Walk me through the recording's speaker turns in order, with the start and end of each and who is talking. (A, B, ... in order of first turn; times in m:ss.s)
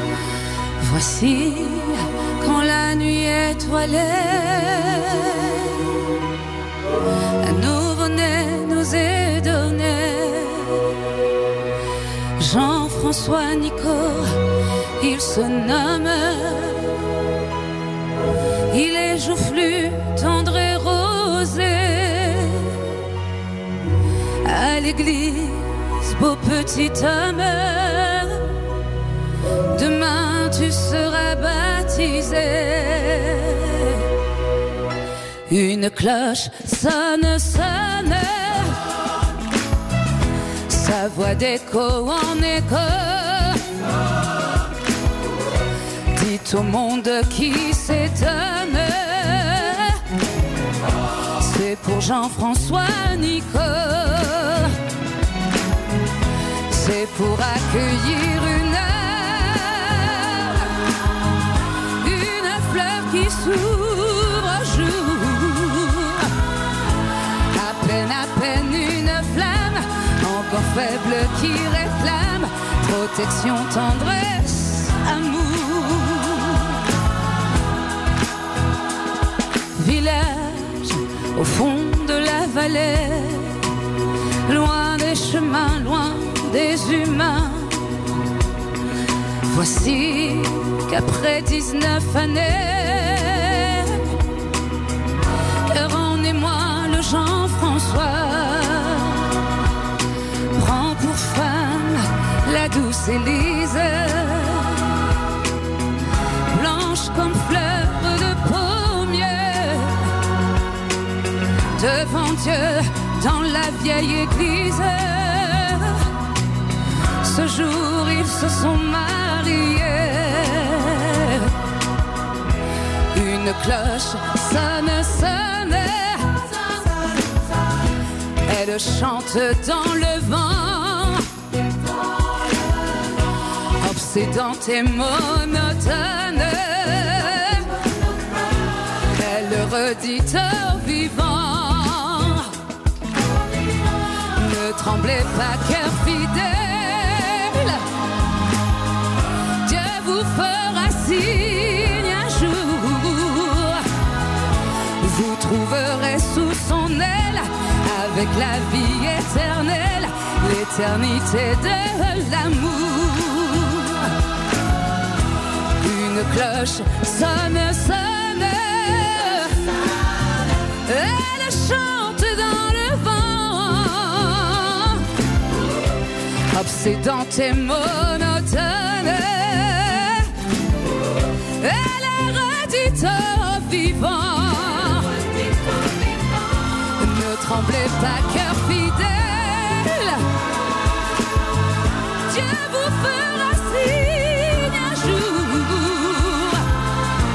0:00.8-0:05.8 A
0:07.4-0:10.9 A
0:12.4-0:14.4 A
0:15.0-0:16.9 A
0:18.7-0:22.8 A
0:24.4-0:28.5 A
0:29.7-0:34.0 A
0:35.5-0:38.8 A
0:40.7-0:43.6 A
0:46.1-0:50.0 A
0:51.4-0:54.8 A
0:56.7-1:00.7 A
1:02.0-1:06.3 A
1:07.5-1:16.7 A
1:19.8-1:23.6 A
1:24.5-1:27.8 A
1:29.5-1:34.1 A
1:35.7-1:39.3 A
1:40.6-1:44.9 A
1:46.5-1:50.0 A
1:51.8-1:56.0 A
1:57.2-2:01.5 A
2:03.1-2:06.9 A
2:08.5-2:11.3 A
2:13.8-2:17.7 A
2:19.2-2:22.5 A
2:24.4-2:27.8 A
2:29.6-2:33.8 A
2:35.0-2:44.1 A
2:45.8-2:49.6 A
2:50.9-2:55.0 A
2:56.5-3:00.3 A
3:01.6-3:05.3 A
3:07.0-3:10.2 A
3:12.3-3:16.6 A